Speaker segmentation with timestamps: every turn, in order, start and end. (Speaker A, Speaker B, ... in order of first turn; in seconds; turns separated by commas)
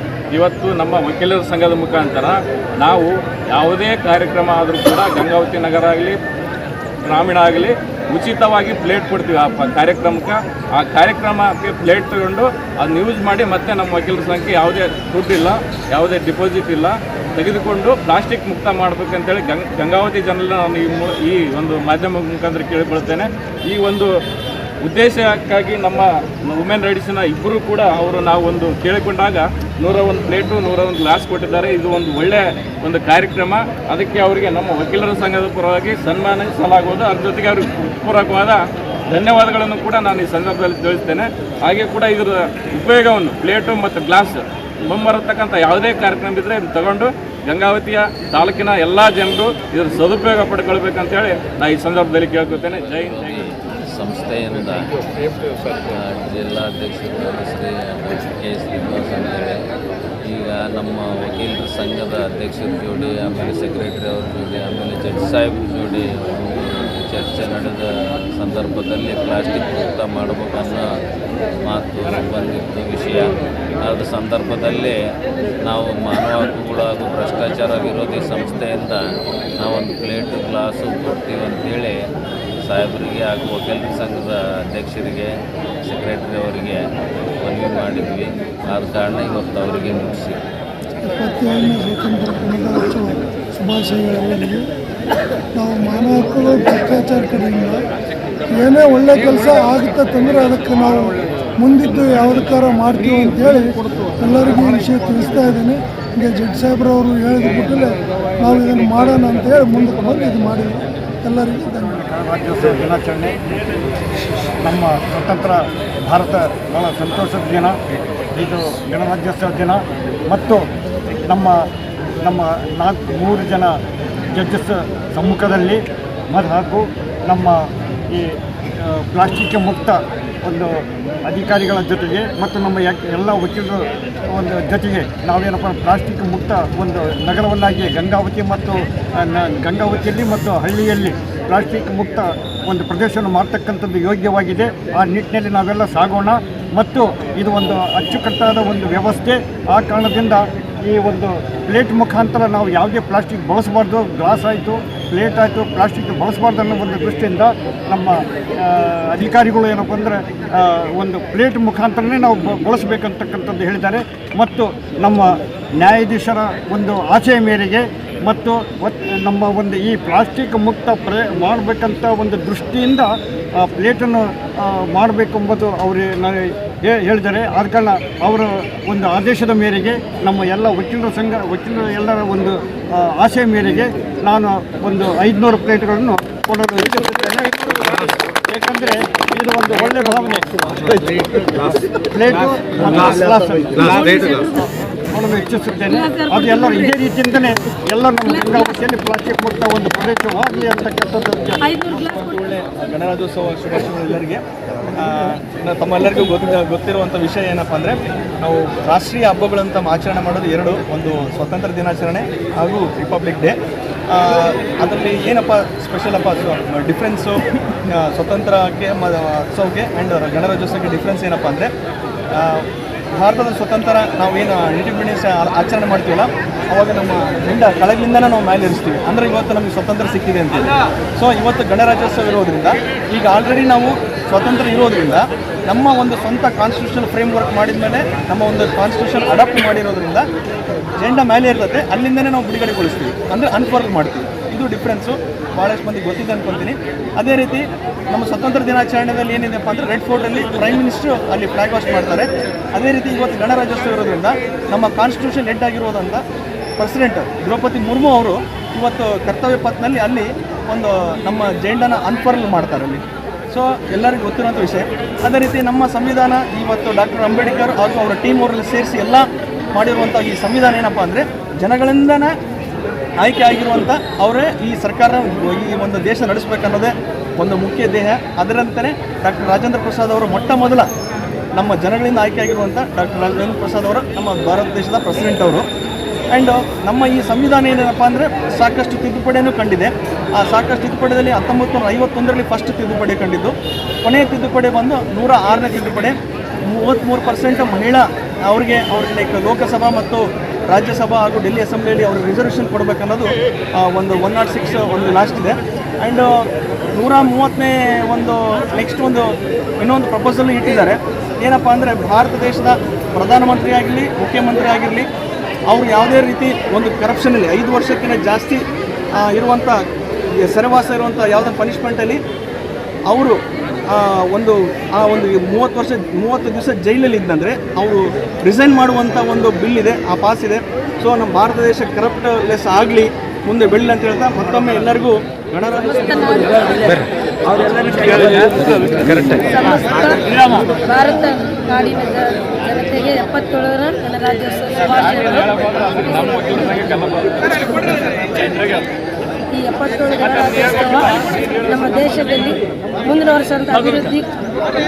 Speaker A: 0.3-6.2, Speaker A: 7.1-24.1, Speaker A: 24.8-53.4, Speaker B: 52.8-54.8, Speaker B: 55.8-59.6, Speaker B: 60.2-70.8, Speaker B: 71.6-73.3, Speaker B: 73.8-75.0, Speaker B: 75.6-79.0, Speaker B: 79.6-82.0, Speaker B: 82.6-86.8, Speaker B: 87.4-90.4, Speaker C: 91.0-94.7, Speaker C: 95.5-97.8, Speaker C: 98.5-111.7, Speaker D: 111.8-113.4, Speaker D: 114.6-117.7, Speaker D: 118.3-120.6, Speaker D: 121.3-121.6, Speaker D: 122.2-123.7, Speaker D: 124.3-194.4, Speaker E: 193.8-194.7, Speaker D: 195.1-201.6, Speaker E: 195.9-197.0, Speaker E: 198.2-198.7, Speaker E: 201.6-202.2, Speaker F: 201.9-204.4, Speaker F: 204.9-213.6, Speaker F: 214.1-221.7, Speaker F: 222.3-240.2, Speaker F: 241.0-256.2, Speaker F: 256.8-272.3, Speaker F: 273.2-280.9, Speaker F: 281.5-285.6, Speaker F: 286.3-293.5, Speaker F: 294.0-315.1, Speaker F: 315.7-318.6, Speaker F: 319.1-322.2, Speaker F: 323.1-336.6, Speaker E: 335.9-336.9, Speaker A: 337.6-339.6, Speaker F: 337.9-338.3, Speaker E: 339.4-345.5, Speaker A: 340.2-340.7, Speaker A: 344.9-348.9, Speaker E: 346.2-346.7, Speaker E: 349.5-354.3, Speaker A: 350.3-351.7